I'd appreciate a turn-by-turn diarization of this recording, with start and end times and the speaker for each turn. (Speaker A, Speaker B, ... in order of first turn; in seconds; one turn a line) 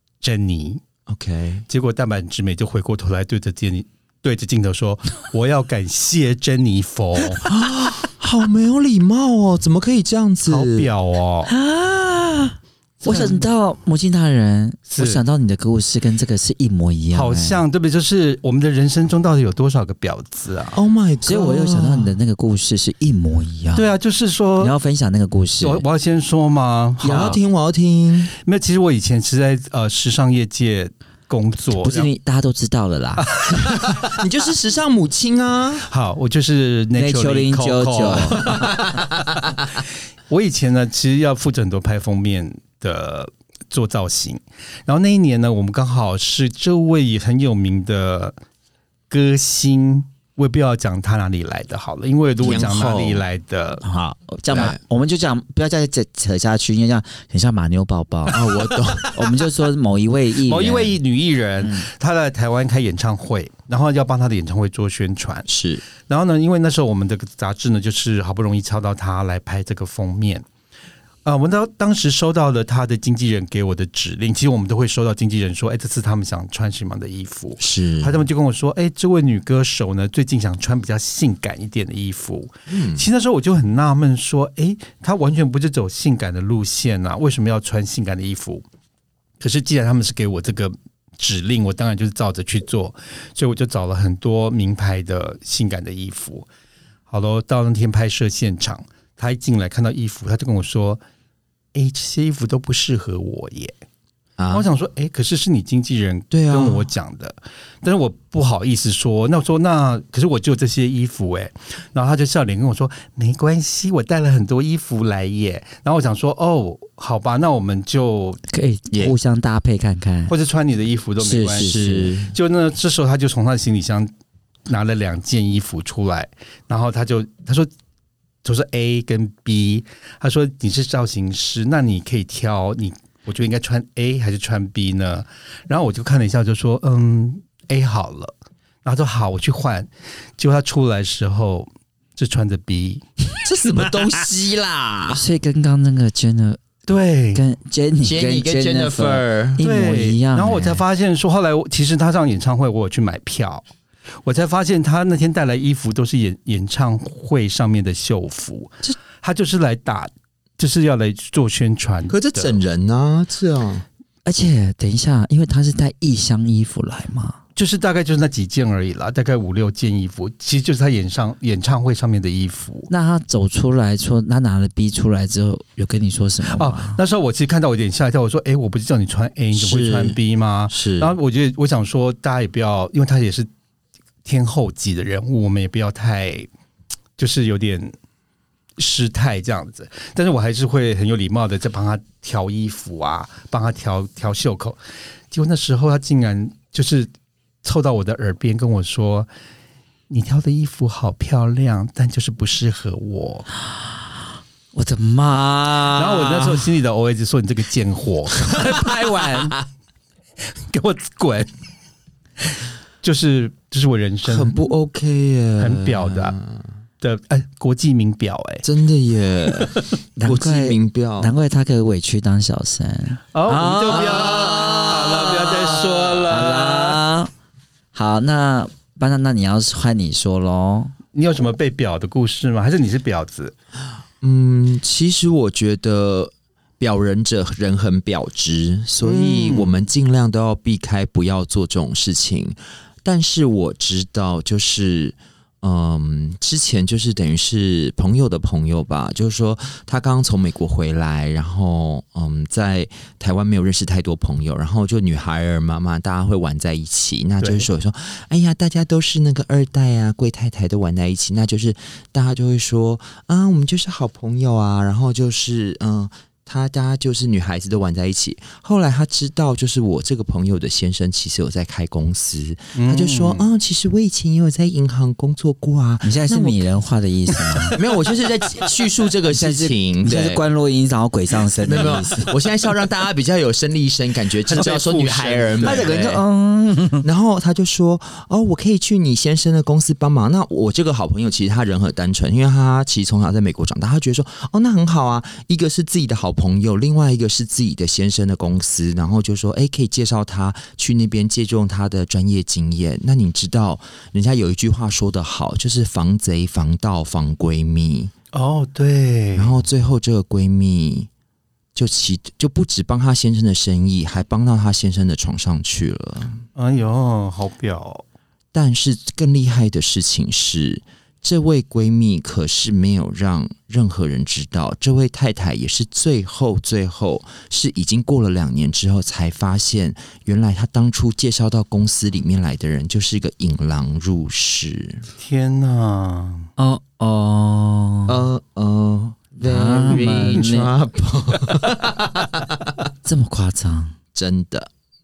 Speaker A: 0.2-0.8
Speaker B: 1.1-1.6
Speaker A: 1.7-7.5
Speaker B: 7.5-10.9
Speaker A: 10.5-11.5
Speaker C: 11.5-17.6
Speaker A: 13.0-13.4
Speaker A: 14.9-15.2
Speaker A: 17.1-20.8
Speaker B: 20.8-22.1
Speaker C: 21.2-23.9
Speaker A: 23.7-24.7
Speaker C: 24.6-25.8
Speaker A: 25.6-27.4
Speaker B: 27.0-28.3
Speaker A: 28.4-32.1
Speaker C: 31.8-33.3
Speaker A: 33.2-34.0
Speaker B: 33.8-35.9
Speaker A: 35.9-38.8
Speaker C: 37.0-38.5
Speaker B: 38.5-39.0
Speaker A: 40.3-48.4
Speaker A: 49.1-53.8
Speaker B: 52.4-53.3
Speaker C: 53.8-58.5
Speaker B: 54.5-54.8
Speaker B: 58.3-59.3
Speaker C: 59.1-61.0
Speaker A: 60.5-65.5
Speaker C: 61.6-61.9
Speaker B: 65.5-65.8
Speaker A: 66.1-70.4
Speaker A: 71.2-88.6
Speaker B: 77.6-78.3
Speaker B: 82.7-83.0
Speaker A: 89.4-96.5
Speaker A: 97.1-101.0
Speaker A: 101.7-103.8
Speaker B: 104.4-104.7
Speaker A: 104.5-118.4
Speaker B: 106.3-106.8
Speaker C: 118.5-120.3
Speaker A: 120.3-124.1
Speaker C: 121.2-122.2
Speaker B: 121.6-122.3
Speaker A: 124.7-127.7
Speaker A: 128.4-138.3
Speaker A: 138.8-143.0
Speaker B: 143.4-145.2
Speaker C: 145.1-146.6
Speaker A: 146.9-147.4
Speaker C: 147.3-150.8
Speaker B: 148.0-149.6
Speaker A: 149.6-153.7
Speaker A: 154.2-162.6
Speaker B: 162.1-163.8
Speaker C: 164.2-167.4
Speaker A: 167.6-172.9
Speaker C: 172.9-177.0
Speaker A: 176.5-183.5
Speaker B: 179.6-180.2
Speaker B: 180.7-181.2
Speaker A: 184.2-186.5
Speaker A: 187.2-187.9
Speaker A: 188.8-194.8
Speaker A: 195.3-197.1
Speaker A: 197.6-199.3
Speaker A: 200.1-203.5
Speaker C: 204.7-206.6
Speaker A: 205.9-209.6
Speaker A: 210.7-211.5
Speaker A: 213.0-214.6
Speaker B: 214.2-216.7
Speaker A: 215.6-216.4
Speaker A: 217.0-218.6
Speaker B: 218.6-221.3
Speaker A: 219.6-219.9
Speaker C: 220.2-225.0
Speaker A: 223.3-227.0
Speaker B: 223.9-226.2
Speaker C: 226.3-227.3
Speaker C: 227.9-230.9
Speaker A: 231.1-233.5
Speaker B: 234.2-276.6
Speaker A: 239.0-239.7
Speaker A: 257.4-257.7
Speaker A: 272.8-273.5
Speaker C: 276.0-277.8
Speaker B: 277.7-280.4
Speaker C: 279.3-282.3
Speaker B: 281.6-286.2
Speaker A: 284.5-286.2
Speaker C: 285.6-287.1
Speaker B: 287.0-308.1
Speaker A: 308.3-309.6
Speaker B: 309.4-311.1
Speaker B: 311.8-316.4
Speaker A: 316.6-318.0
Speaker B: 318.5-335.1
Speaker A: 335.2-336.5
Speaker C: 336.6-338.3
Speaker B: 338.1-342.8
Speaker C: 339.4-340.7
Speaker A: 339.9-340.4
Speaker C: 343.0-343.9
Speaker B: 344.1-344.7